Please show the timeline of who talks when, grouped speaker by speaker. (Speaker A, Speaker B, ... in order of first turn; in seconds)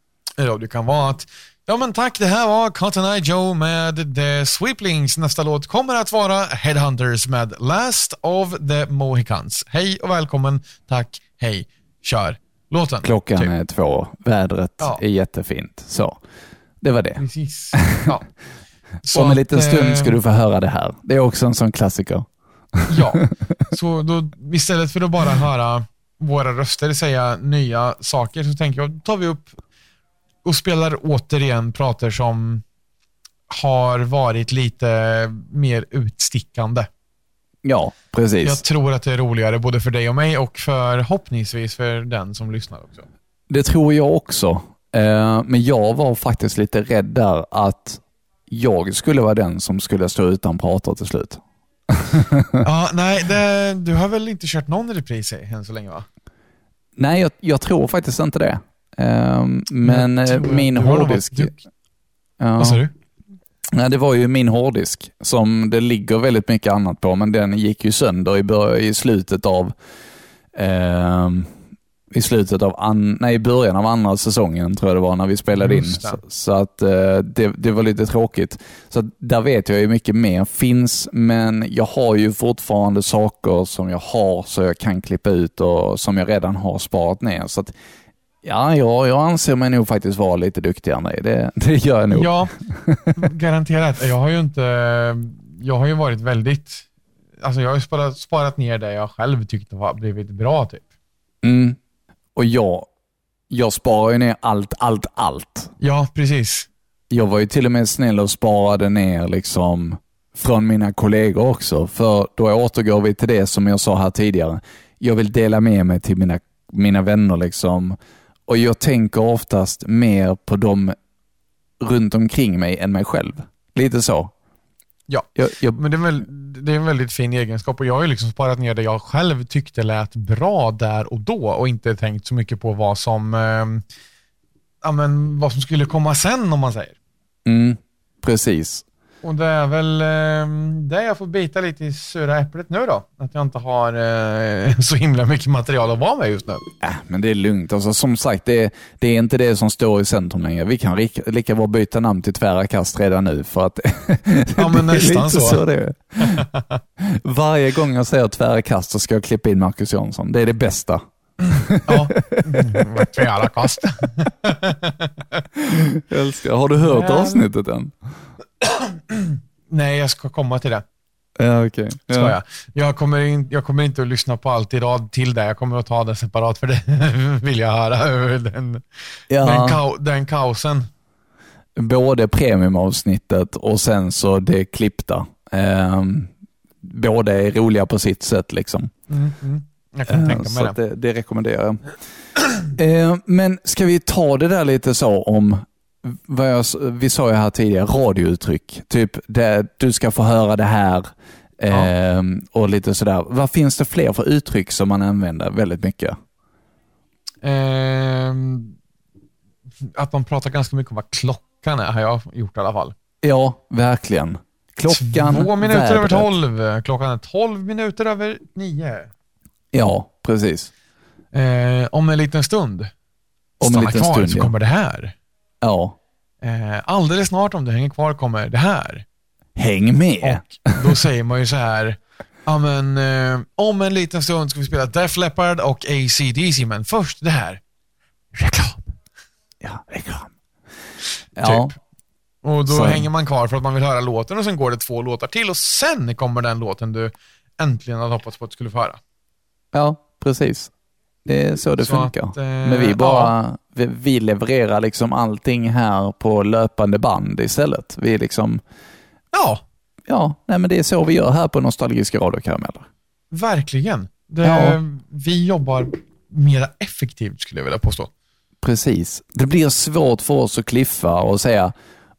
Speaker A: 0.4-13.5, 17.2-18.3, 19.0-20.1, 22.9-29.5, 30.4-32.6, 33.5-36.9, 38.4-43.0, 52.6-56.1, 59.8-61.5, 62.6-62.9, 75.5-76.2, 92.1-92.5, 93.1-96.8, 97.4-100.8, 105.8-106.7, 125.1-133.8, 134.8-136.9, 139.2-146.6, 154.6-155.6, 156.2-156.8, 161.5-165.1, 166.8-167.4, 168.6-170.8, 172.1-178.8, 179.4-180.9, 189.1-190.8, 207.4-208.8, 209.8-212.9, 214.9-219.1, 221.3-222.9, 223.6-225.1, 226.4-229.0, 230.2-237.6, 238.3-238.9, 241.4-241.8, 242.4-249.0, 251.8-253.3, 259.3-259.6, 263.3-268.1
Speaker B: 13.0-16.2, 16.8-18.0, 19.1-23.0, 37.6-38.6, 43.5-52.6, 57.0-61.5, 62.4-62.8, 63.7-69.7, 70.5-71.5, 72.1-87.7, 88.4-93.2, 101.4-101.8, 102.3-102.9, 103.5-105.7, 107.1-121.0, 121.8-124.3, 125.3-126.2, 137.4-138.8, 146.8-156.4, 157.0-163.0, 165.6-167.9, 171.4-172.4, 179.3-179.8, 181.8-186.3, 186.8-188.9, 190.1-191.9, 192.6-206.2, 213.2-216.3, 219.7-220.7, 223.6-224.5, 225.6-225.9, 229.6-230.9, 239.6-240.3, 241.4-241.7, 242.7-243.1, 249.7-250.7, 251.2-258.6, 260.1-262.9, 264.4-264.8, 268.6-271.7